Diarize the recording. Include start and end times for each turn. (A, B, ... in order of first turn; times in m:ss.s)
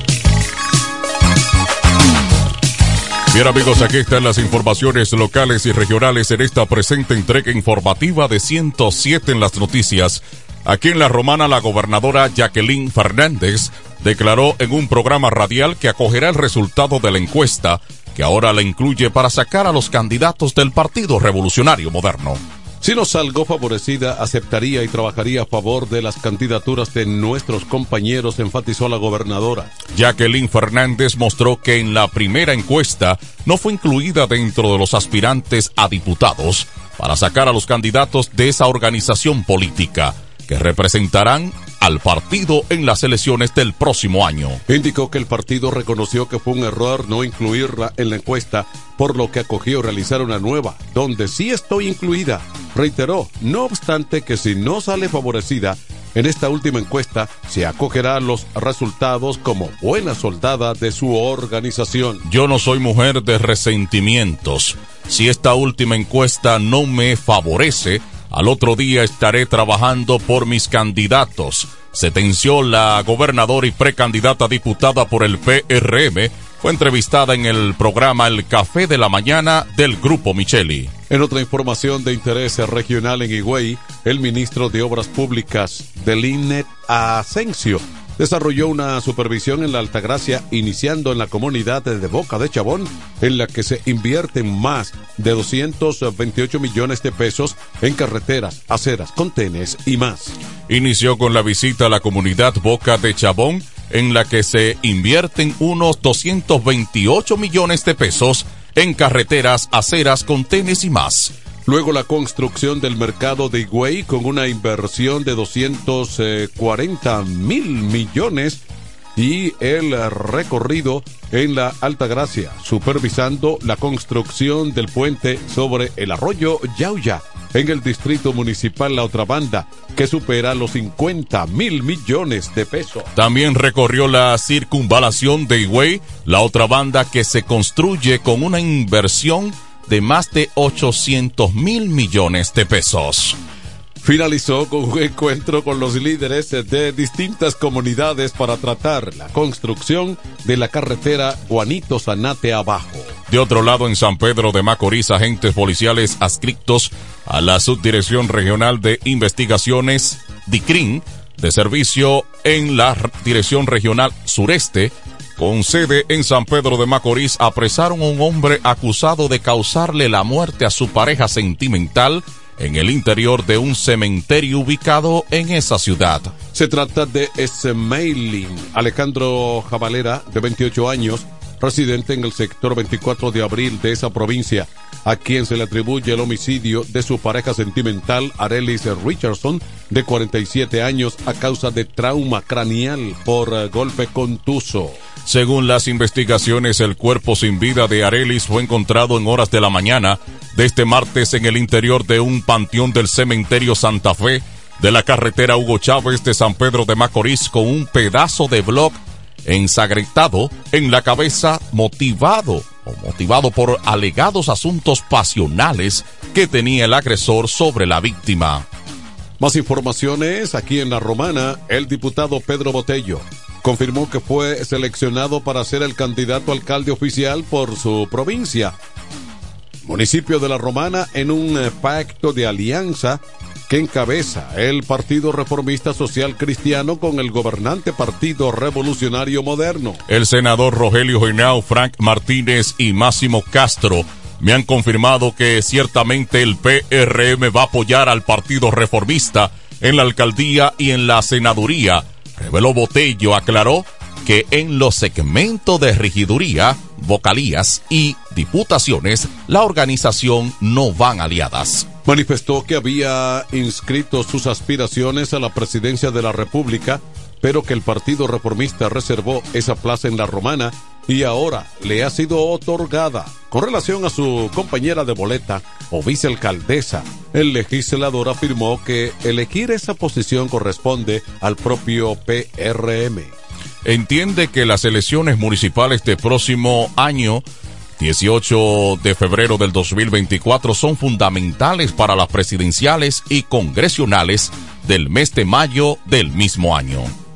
0:03.3-0:22.4 A
0:22.8-0:29.7 B
0:29.9-0:44.6 A
0:44.7-1:02.2 B
1:02.2-1:20.9 A
1:21.1-1:40.3 B
1:40.7-1:51.3 A
1:51.7-1:58.6 B
1:59.2-2:13.1 B
2:13.2-2:23.4 A
2:24.0-2:33.2 B
2:33.3-2:56.3 A
2:56.5-3:15.0 B
3:15.2-3:38.7 A
3:39.4-3:48.8 B
3:49.8-4:00.0 B
4:00.1-4:21.9 A
4:22.1-4:43.3 B
4:43.8-4:47.4 A
4:48.0-4:57.1 A